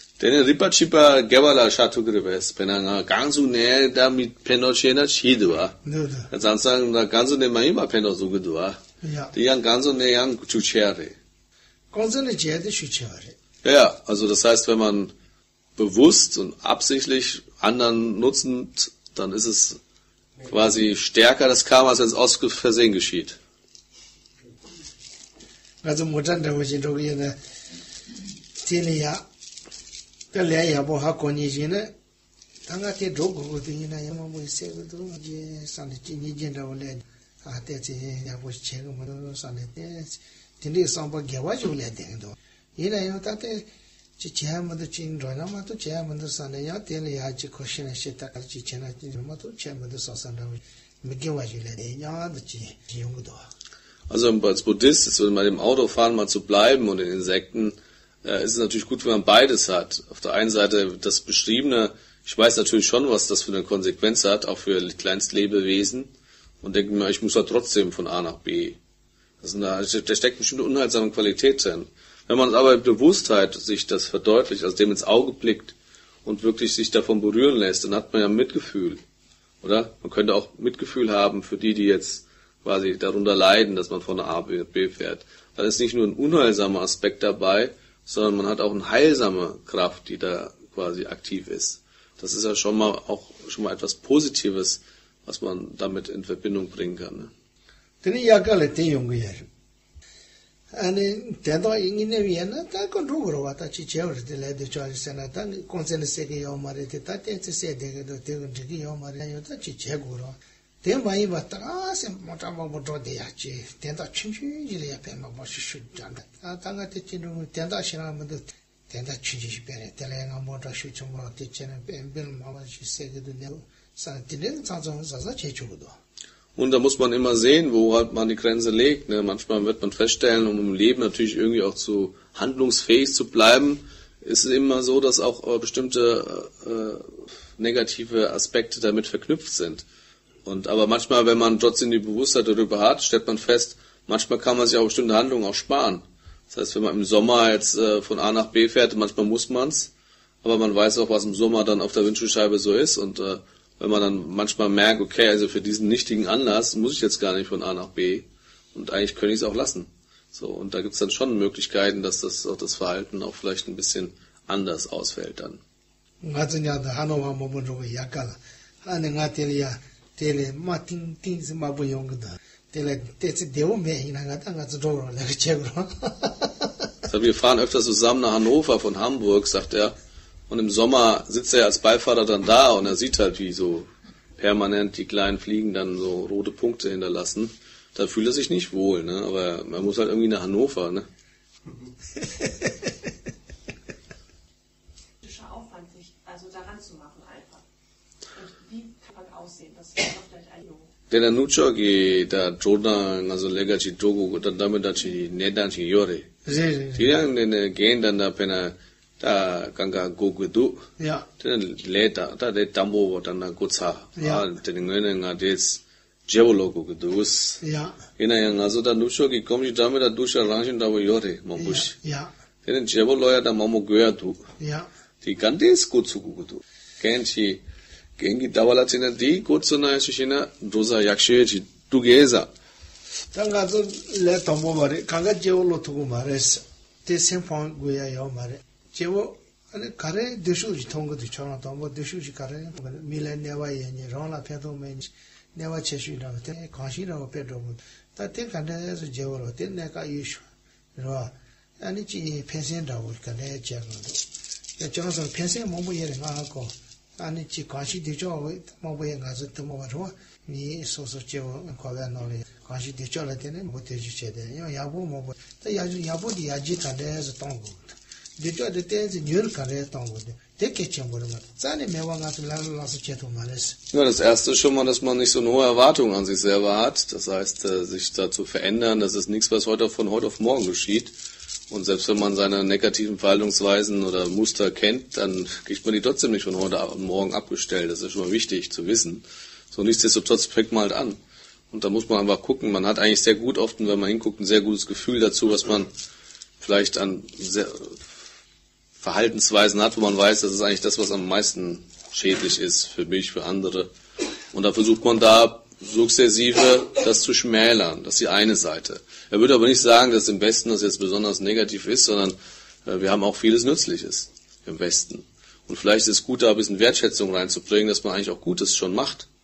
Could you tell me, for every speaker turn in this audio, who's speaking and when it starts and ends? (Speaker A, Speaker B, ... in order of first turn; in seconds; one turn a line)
Speaker A: 0.2-5.8
Speaker B: 5.8-6.3
Speaker A: 6.3-8.8
Speaker B: 9.0-9.3
Speaker A: 9.3-11.2
Speaker B: 11.9-13.4
Speaker A: 13.6-15.1
Speaker A: 15.8-19.8
Speaker A: 20.5-23.4
Speaker B: 25.8-27.4
Speaker B: 28.6-29.3
Speaker B: 30.3-31.9
Speaker B: 32.7-43.7
Speaker B: 44.2-53.5
Speaker A: 54.1-68.8
Speaker A: 69.4-79.0
Speaker A: 79.6-97.3
Speaker B: 98.0-99.5
Speaker B: 100.7-126.0
Speaker A: 126.6-139.8
Speaker A: 140.4-149.9
Speaker A: 150.4-165.6
Speaker B: 166.2-176.8
Speaker A: 177.1-180.0
Speaker A: 180.5-191.1
Speaker C: 195.2-197.6
Speaker C: 198.3-200.9
Speaker A: 201.1-206.3
Speaker B: 206.5-207.1
Speaker A: 206.9-210.9
Speaker B: 211.0-211.3
Speaker A: 211.4-217.6
Speaker B: 214.2-214.4
Speaker B: 217.6-218.0
Speaker A: 218.2-221.9
Speaker B: 221.6-222.3
Speaker A: 222.6-224.5
Speaker B: 224.6-224.9
Speaker A: 225.2-227.6
Speaker A: 228.2-232.5
Speaker B: 233.3-254.2
Speaker B: 254.8-273.8
Speaker A: 273.9-281.1
Speaker A: 281.7-291.2
Speaker A: 291.7-295.9
Speaker A: 296.6-298.0
Speaker A: 299.0-303.9
Speaker A: 304.5-319.3